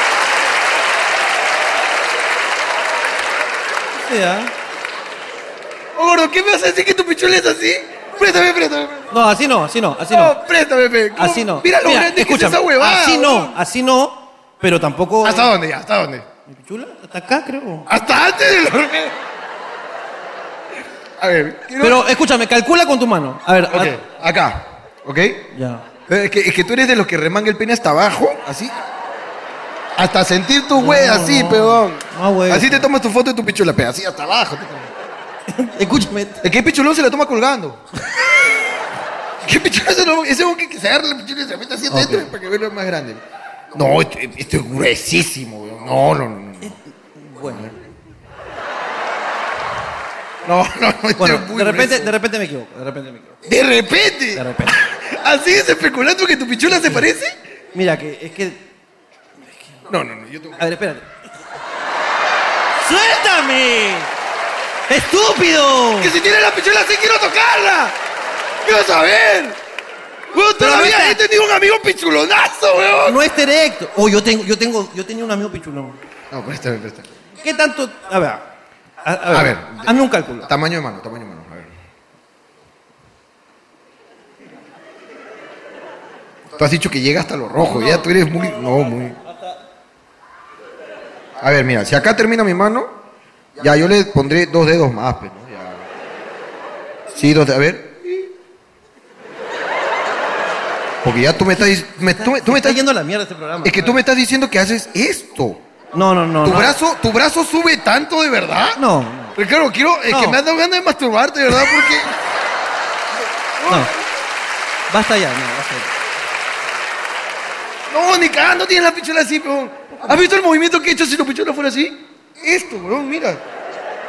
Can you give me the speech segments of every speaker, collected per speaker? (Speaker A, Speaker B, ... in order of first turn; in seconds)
Speaker A: 3.9-4.5, 9.1-10.3, 11.2-15.5, 16.5-17.9, 21.8-24.0, 25.5-25.9, 30.7-32.9, 35.5-36.4, 41.9-42.3, 46.6-47.7, 51.2-53.4, 54.3-54.8, 56.7-57.0, 57.7-58.7, 59.5-59.8, 60.6-61.1, 62.8-64.1, 64.9-66.1, 70.6-71.2, 73.0-76.0, 77.4-78.5, 79.0-80.5, 101.6-104.0, 105.9-106.7, 108.8-109.4, 110.1-110.4, 114.9-115.9
Speaker B: 6.0-9.1, 10.1-13.5, 15.2-16.2, 17.9-19.1, 21.2-22.0, 23.7-25.5, 26.1-28.7, 30.0-34.9, 36.4-37.8, 39.4-43.2, 43.7-46.7, 47.4-47.7, 50.5-52.1, 53.5-57.3, 59.9-60.6, 66.0-67.9, 68.6-69.6, 70.3-73.2, 76.3-77.1, 79.3-79.9, 80.4-81.7, 86.6-89.2, 91.4-92.9, 93.6-95.8, 97.1-98.3, 101.0-102.8, 103.6-105.6, 106.4-108.8, 109.3-112.1, 113.6-113.9, 117.9-123.4